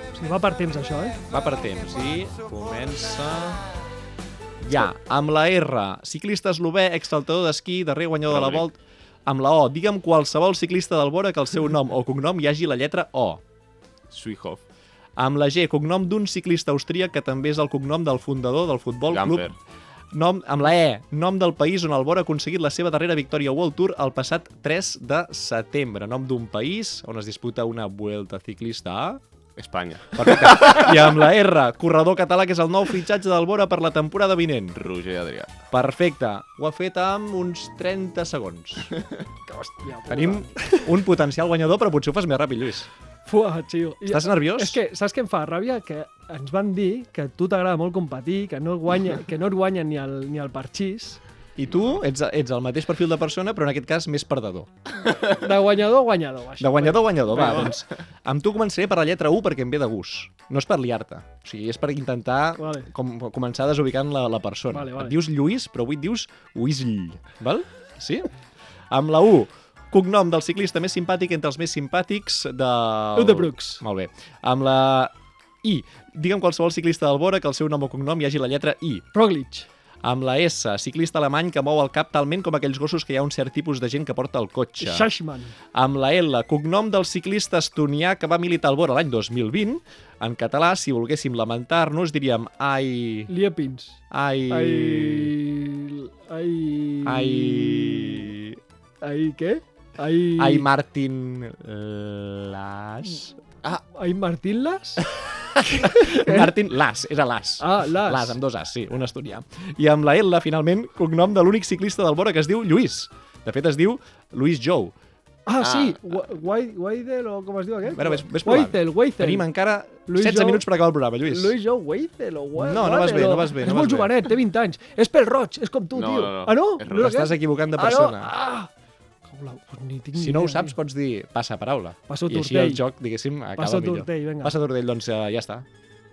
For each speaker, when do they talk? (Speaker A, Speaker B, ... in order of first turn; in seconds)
Speaker A: 0.1-1.2, 39.5-41.0, 43.3-51.2, 55.2-57.8, 62.6-62.9, 64.7-65.2, 73.2-73.8, 79.1-79.7, 84.8-85.5, 93.3-98.3, 99.0-100.7, 103.8-105.0, 105.7-106.5, 107.6-108.4, 115.5-119.5, 120.1-120.7, 121.2-128.7, 129.3-130.8, 132.1-132.8, 133.6-134.6
Speaker B: 1.3-3.7, 4.6-13.4, 15.2-19.5, 20.1-29.2, 30.1-34.8, 35.7-39.0, 40.1-42.9, 44.1-44.8, 51.6-54.7, 56.6-68.3, 68.9-79.1, 80.0-85.1, 85.7-93.3, 94.1-95.3, 97.0-98.6, 100.4-103.3, 105.2-115.0, 117.9-121.5, 122.6-124.1, 126.9-128.3, 130.2-135.7
Speaker C: 8.3-8.7, 14.1-14.6, 19.1-19.6, 29.6-31.0, 34.8-35.5, 115.6-116.0, 125.9-127.1